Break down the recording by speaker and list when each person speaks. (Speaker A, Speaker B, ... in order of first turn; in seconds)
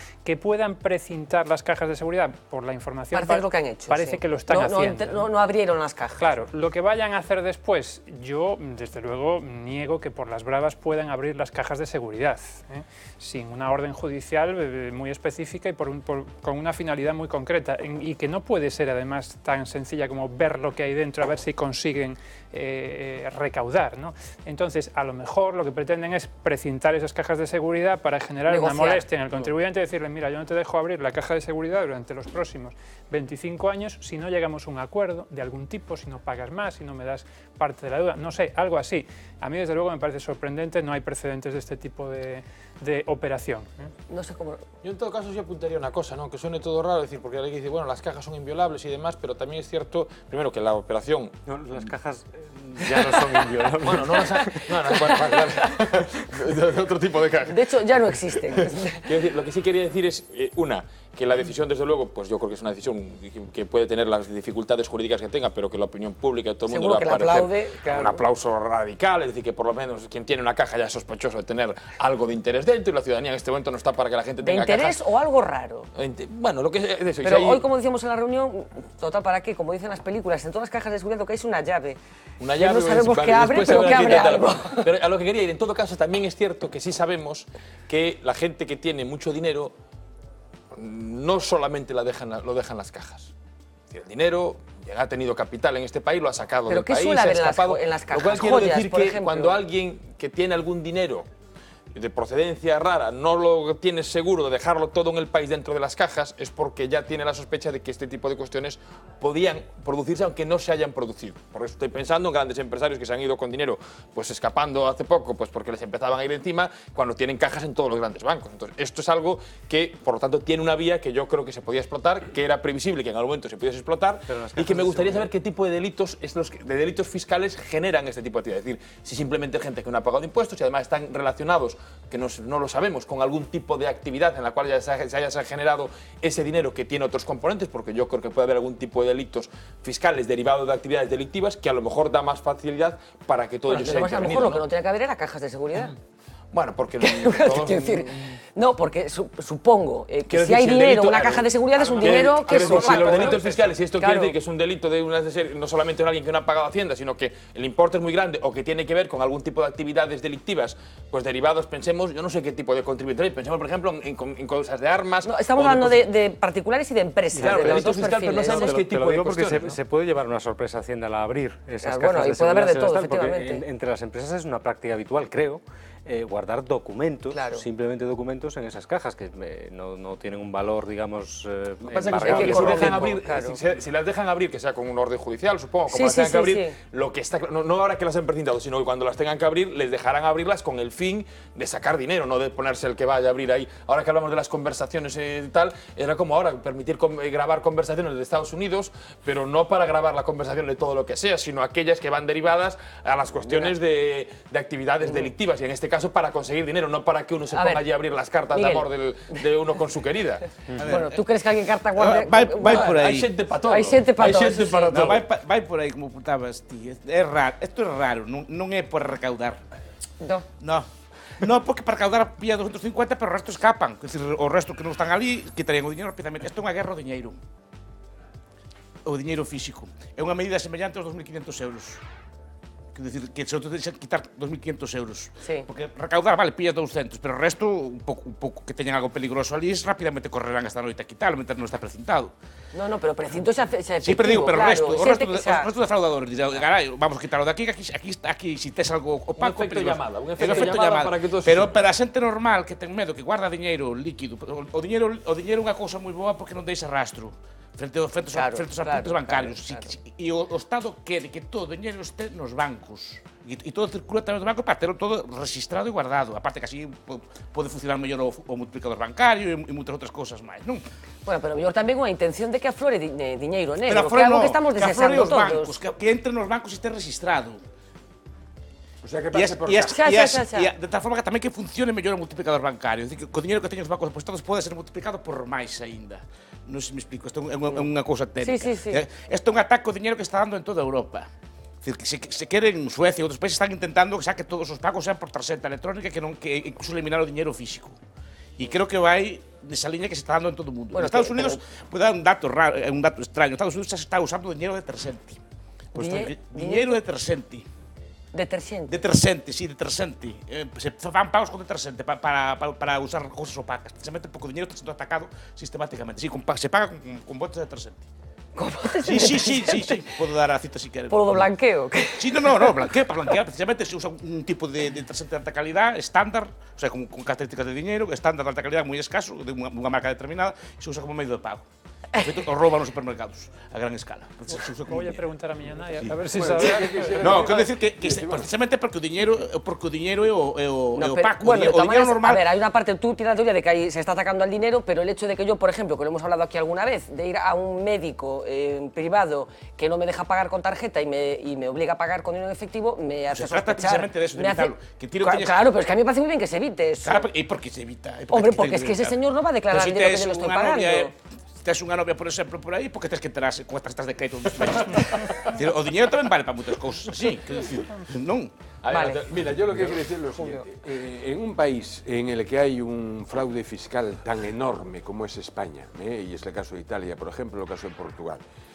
Speaker A: 0.2-5.3, 6.2-43.9, 334.6-337.4
Speaker B: 3.1-6.2, 28.5-29.5, 44.1-44.6, 54.7-55.7, 57.5-59.1, 66.7-68.2, 74.4-75.9, 77.2-82.0, 82.6-84.9, 96.7-99.6, 143.7-145.9, 147.0-154.3, 165.2-168.8, 171.8-173.6, 177.3-177.6, 182.3-183.6, 185.9-186.8, 203.5-203.7, 205.1-205.3, 207.5-207.9, 208.5-208.9, 210.8-213.0, 213.7-215.2, 242.7-245.7, 258.3-259.9, 271.3-275.8, 279.9-280.7, 288.4-289.0, 300.9-301.6, 306.0-307.0, 308.3-308.9, 318.6-320.1, 321.1-322.8, 341.0-357.3, 358.3-361.1, 368.9-369.2
Speaker C: 44.8-51.4, 53.0-57.6, 58.5-75.0, 76.0-77.7, 82.4-89.8, 90.7-93.3, 93.9-101.3, 101.9-144.6, 146.5-148.4, 150.3-166.1, 167.3-169.8, 181.9-210.4, 212.6-215.2, 249.4-251.8, 368.8-370.6
Speaker D: 51.5-55.2, 124.3-125.3, 152.0-153.6, 167.3-183.2
Speaker E: 210.8-211.2, 212.0-213.3, 214.9-219.6, 220.6-220.9, 221.4-227.4, 229.1-232.0, 232.9-242.3, 244.0-270.8, 273.9-277.6, 279.3-291.3, 291.8-298.0, 298.6-305.4, 305.9-307.7, 308.9-318.0, 319.0-321.5, 322.2-331.6, 332.2-335.2, 336.0-342.4, 353.3-355.7, 357.0-368.5
Speaker F: 279.0-280.1, 336.1-338.5, 369.3-378.4